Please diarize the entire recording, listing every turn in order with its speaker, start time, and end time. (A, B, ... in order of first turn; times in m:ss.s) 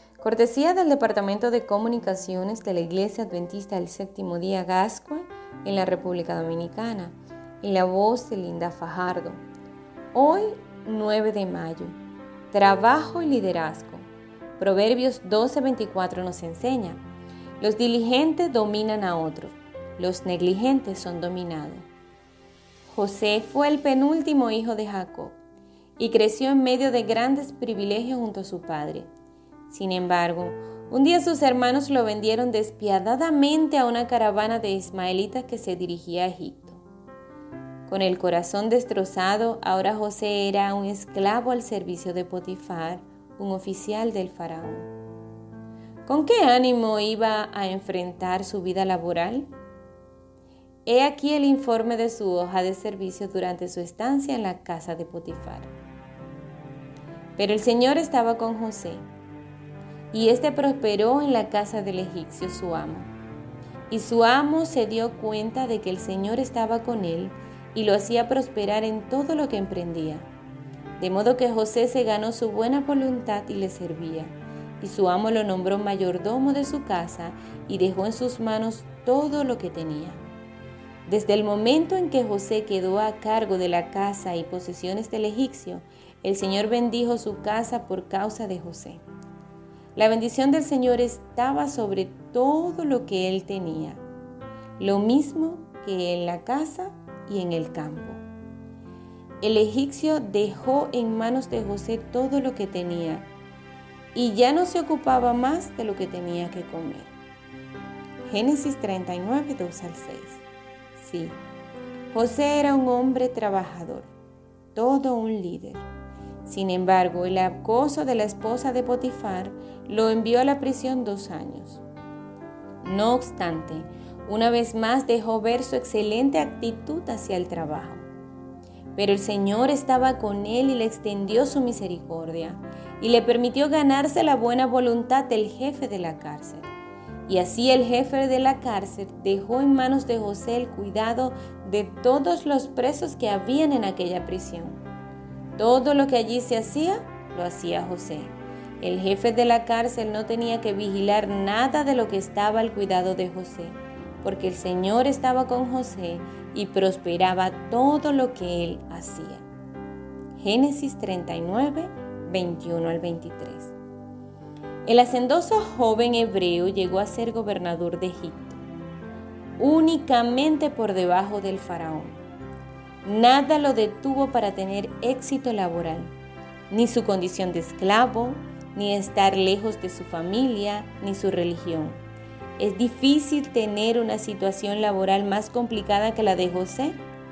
0:00.2-0:09.4 A
0:10.1-0:12.0 A
0:12.5-0:17.0 A
0:17.6-0:21.9 A
0:22.9-0:25.4 A
0:26.0-0:29.1 A
0:29.7-0:36.8 A
0:37.9-0:44.9 A
0:46.0-0:49.5 A
0:50.8-0:55.7 A
0:57.4-0:59.0 A
1:00.1-1:03.1 A
1:03.9-1:10.3 A
1:11.0-1:20.2 A
1:21.0-1:29.0 A
1:29.9-1:34.0 A
1:34.8-1:38.2 A
1:39.4-1:43.3 A
1:44.1-1:47.1 A
1:48.2-1:50.4 A
1:51.0-1:51.4 A
1:52.1-1:54.1 A
1:54.7-1:55.9 A
1:56.4-2:01.8 A
2:02.8-2:08.1 A
2:09.0-2:16.7 A
2:17.3-2:24.8 A
2:25.6-2:39.4 A
2:40.4-2:43.7 A
2:44.8-2:48.6 A
2:49.6-2:52.2 A
2:53.0-2:56.1 A
2:56.7-3:02.0 A
3:02.6-3:07.0 A